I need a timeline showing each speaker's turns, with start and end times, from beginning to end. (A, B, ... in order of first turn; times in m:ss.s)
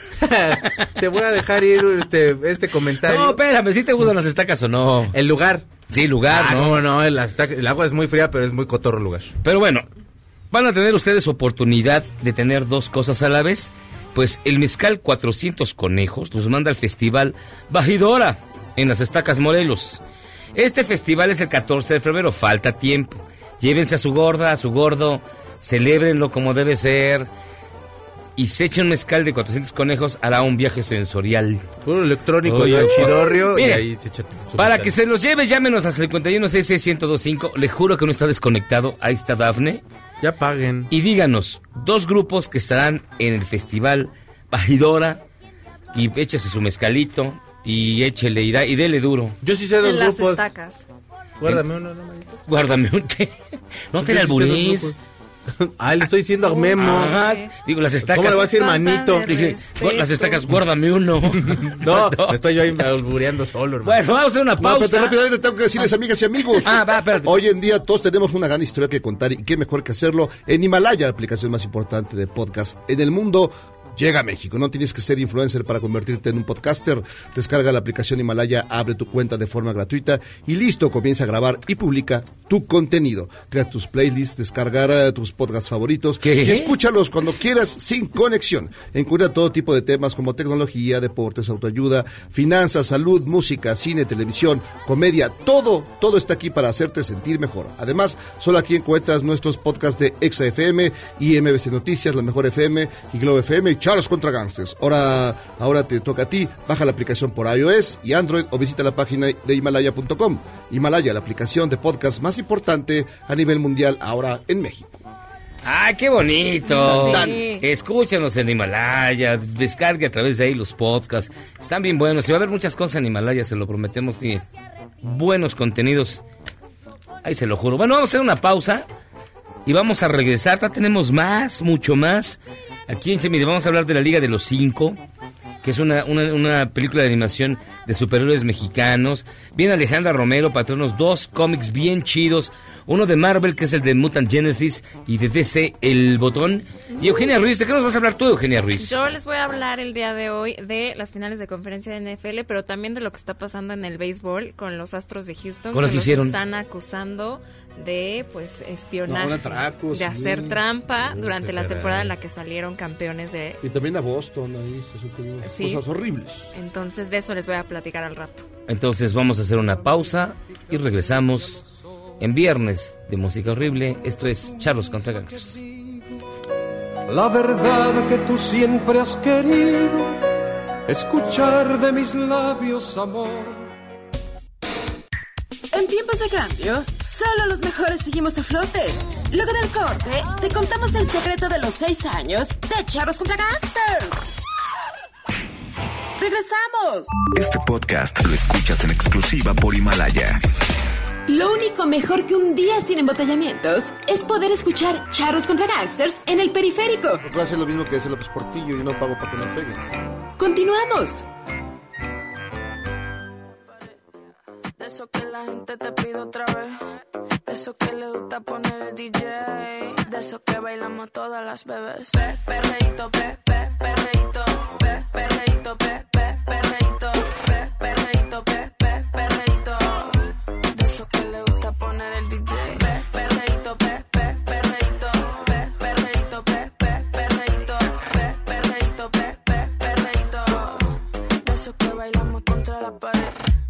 0:00.2-0:03.4 A
0:03.0-0:05.1 B
0:05.1-0:05.7 A
0:05.9-0:06.8 B
0:06.3-0:09.3 A
0:09.4-0:09.8 B
0:10.5-0:20.0 B
0:20.5-0:27.3 B
0:28.4-0:31.6 B
0:31.8-0:34.9 A
0:32.4-0:33.8 B
0:34.6-0:39.8 B
0:40.2-0:40.9 A
0:40.9-0:45.2 B
0:45.9-0:49.4 B
0:49.4-0:50.4 A
0:49.8-0:50.8 C
0:51.4-0:52.4 A
0:52.5-0:53.4 B
0:53.9-0:54.9 B
0:54.0-0:55.0 A
0:55.5-0:57.2 A
0:56.4-0:57.5 C
0:56.8-0:58.5 B
0:58.0-0:59.4 A
0:58.4-1:00.4 C
0:59.2-1:02.4 B
1:01.5-1:04.0 A
1:03.8-1:05.2 B
1:04.6-1:55.0 D
1:06.6-1:07.4 B
1:26.2-1:26.7 B
1:55.6-2:04.4 B
1:56.6-1:57.6 C
1:56.8-1:57.5 D
2:05.0-2:06.2 B
2:07.2-2:08.8 B
2:09.6-2:15.0 B
2:15.6-2:29.0 B
2:26.9-2:27.3 C
2:28.8-2:43.6 C
2:35.7-2:36.4 B
2:39.0-2:40.6 D
2:41.1-2:42.1 A
2:43.6-2:46.5 D
2:45.4-2:45.8 C
2:46.5-2:48.4 C
2:48.7-2:51.6 B
2:52.2-2:55.6 B
2:57.1-3:00.2 E
3:00.9-3:03.7 E
3:05.7-3:14.2 F
3:16.2-3:17.1 F
3:17.2-3:20.4 G
3:21.3-3:27.2 F
3:27.2-3:29.9 D
3:30.4-3:31.2 F
3:33.6-3:34.2 H
3:34.8-4:03.4 H